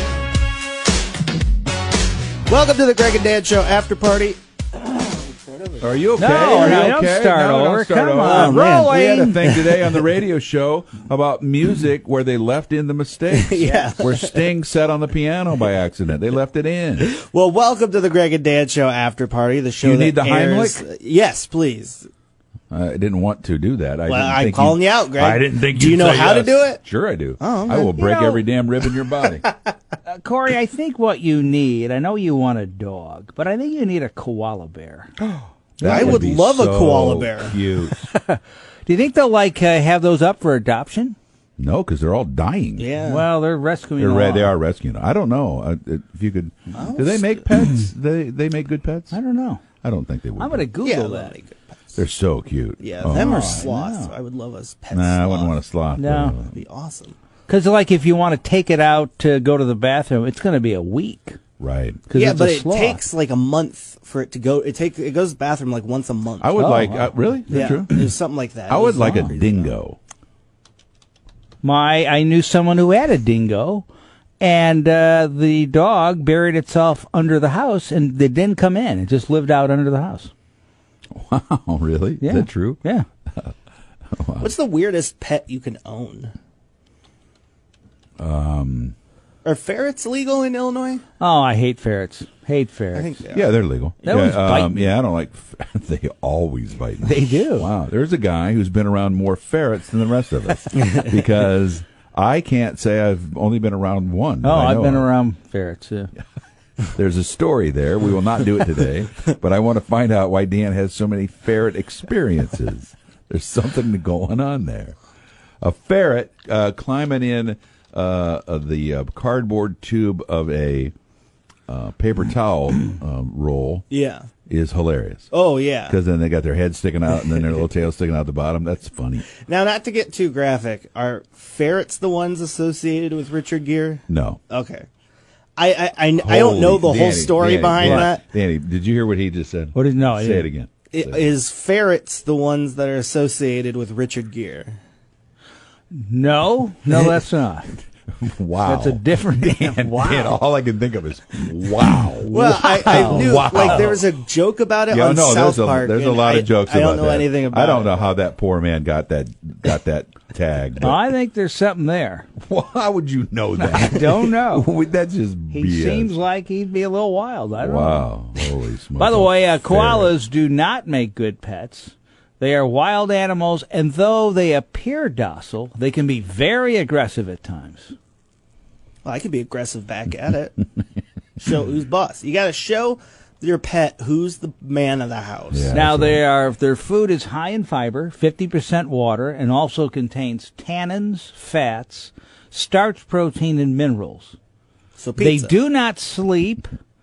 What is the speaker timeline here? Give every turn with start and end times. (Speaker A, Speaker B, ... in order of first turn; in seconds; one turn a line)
Speaker A: 2.5-7.0
Speaker B: 5.8-17.1
Speaker C: 6.2-9.4
Speaker A: 8.2-10.0
Speaker A: 13.3-14.5
Speaker A: 17.0-22.1
Speaker B: 19.8-20.8
Speaker B: 22.7-29.4
Speaker A: 24.1-26.8
Speaker A: 27.4-28.0
Speaker C: 27.9-28.4
Speaker C: 30.0-35.1
Speaker B: 35.2-38.0
Speaker C: 35.8-36.2
Speaker A: 35.8-37.6
Speaker C: 37.9-41.2
Speaker B: 41.6-42.9
Speaker A: 42.8-43.3
Speaker C: 43.0-44.5
Speaker B: 44.0-49.2
Speaker A: 46.7-47.5
Speaker C: 49.1-49.6
Speaker B: 49.8-50.7
Speaker C: 50.4-51.3
Speaker A: 50.8-51.6
Speaker B: 52.0-53.7
Speaker A: 52.8-55.5
Speaker C: 53.1-54.1
Speaker B: 54.9-56.5
Speaker C: 56.0-56.4
Speaker A: 56.5-57.2
Speaker C: 57.5-61.4
Speaker B: 61.6-62.0
Speaker C: 62.1-63.0
Speaker A: 62.1-66.6
Speaker B: 66.4-68.1
Speaker C: 66.6-67.8
Speaker A: 67.5-69.7
Speaker B: 68.7-70.0
Speaker C: 71.6-73.9
Speaker C: 74.4-80.3
Speaker B: 81.1-82.8
Speaker C: 82.2-83.1
Speaker B: 84.1-84.5
Speaker A: 84.4-86.3
Speaker B: 88.2-89.0
Speaker A: 89.5-91.0
Speaker C: 91.2-93.2
Speaker A: 92.9-93.6
Speaker B: 93.3-105.1
Speaker C: 94.0-94.8
Speaker C: 97.0-97.7
Speaker C: 104.4-106.1
Speaker B: 106.9-115.0
Speaker B: 115.6-120.9
Speaker B: 121.7-123.9
Speaker A: 123.9-124.3
Speaker B: 124.5-125.3
Speaker A: 125.3-126.0
Speaker B: 125.9-129.3
Speaker A: 129.4-134.8
Speaker B: 134.1-134.4
Speaker A: 135.6-138.2
Speaker B: 136.2-141.3
Speaker C: 137.8-138.1
Speaker C: 139.7-140.5
Speaker A: 140.9-144.8
Speaker C: 145.9-147.7
Speaker B: 148.2-154.0
Speaker C: 148.6-150.4
Speaker C: 151.7-154.0
Speaker A: 152.3-158.1
Speaker B: 154.9-161.0
Speaker C: 160.8-162.3
Speaker B: 162.4-166.2
Speaker C: 163.6-164.7
Speaker C: 165.5-168.4
Speaker B: 167.6-170.1
Speaker C: 168.9-177.9
Speaker A: 179.0-180.6
Speaker A: 181.4-185.7
Speaker B: 185.5-186.2
Speaker C: 185.7-194.3
Speaker A: 195.0-195.6
Speaker C: 195.2-196.7